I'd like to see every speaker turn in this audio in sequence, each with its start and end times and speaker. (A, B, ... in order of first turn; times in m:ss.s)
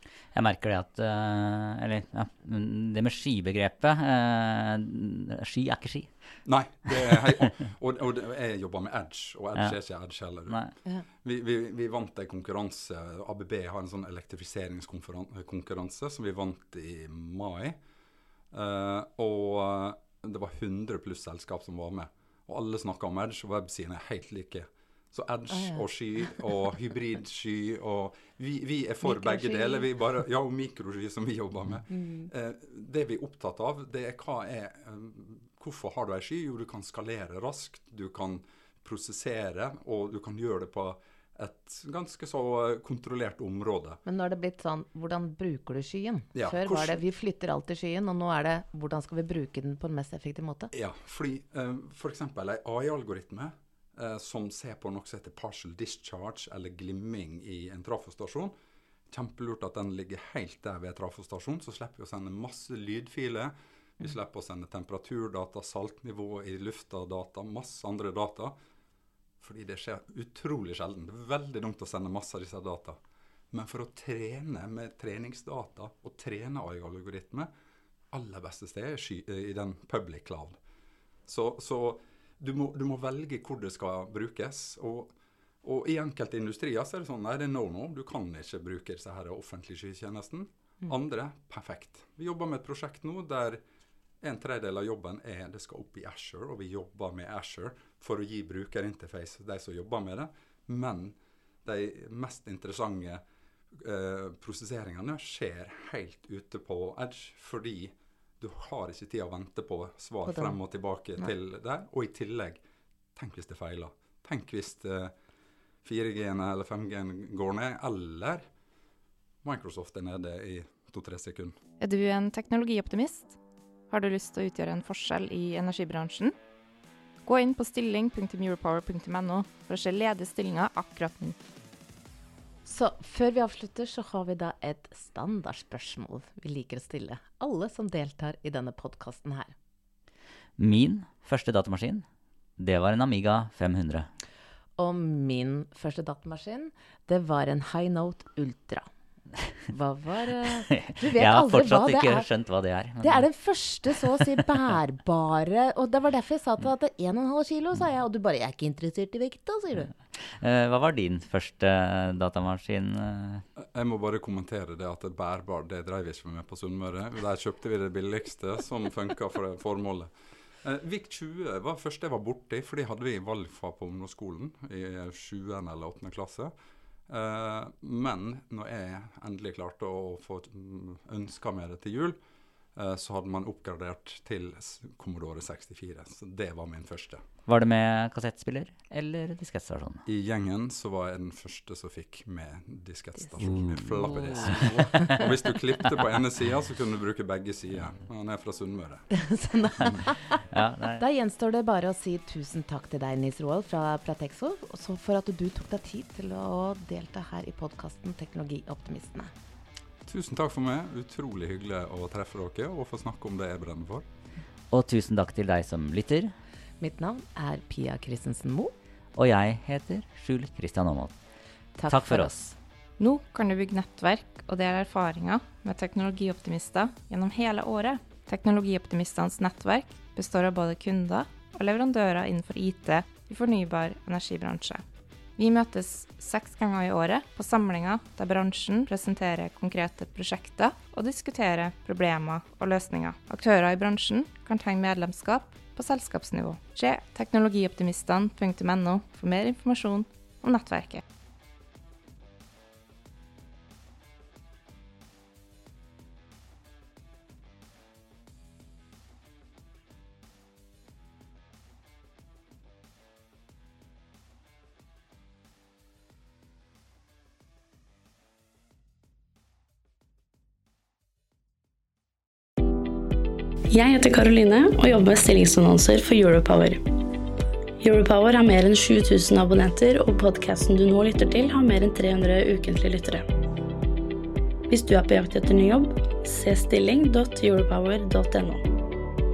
0:00.3-0:06.1 A
0:06.5-0:10.6 B
0:10.5-0:10.7 A
0:11.1-0:17.8 B
0:18.5-0:44.0 B
0:29.1-0:29.8 C
0:44.0-0:50.7 C
0:46.3-0:47.0 B
0:50.7-0:58.5 B
0:59.1-1:08.6 B
1:09.4-1:13.0 B
1:13.5-1:17.5 B
1:18.1-1:20.6 B
1:21.3-1:33.6 B
1:34.2-1:52.6 B
1:53.2-1:55.1 B
1:55.8-1:58.5 B
1:59.4-2:01.6 B
2:01.8-2:03.4 D
2:03.9-2:06.3 D
2:07.2-2:11.4 D
2:12.6-2:19.6 C
2:20.6-2:22.0 A
2:22.6-2:24.1 A
2:24.8-2:28.9 C
2:29.7-2:32.3 C
2:30.7-2:33.3 A
2:33.0-2:39.9 C
2:40.1-2:43.4 A
2:43.6-2:50.1 B
2:50.6-2:56.5 B
2:57.1-3:02.2 B
3:02.8-3:07.2 B
3:07.5-3:10.0 A
3:10.1-3:19.0 B
3:13.4-3:15.3 A
3:19.1-3:20.4 C
3:20.5-3:21.0 A
3:21.0-3:29.3 C
3:30.0-3:34.1 B
3:34.7-3:36.4 A
3:36.8-3:38.7 C
3:39.2-3:41.2 A
3:41.8-3:42.3 C
3:41.9-3:42.6 A
3:43.0-3:54.8 D
3:55.4-4:11.0 D
4:33.7-4:36.8 E
4:37.8-4:43.3 E
4:44.7-4:48.7 E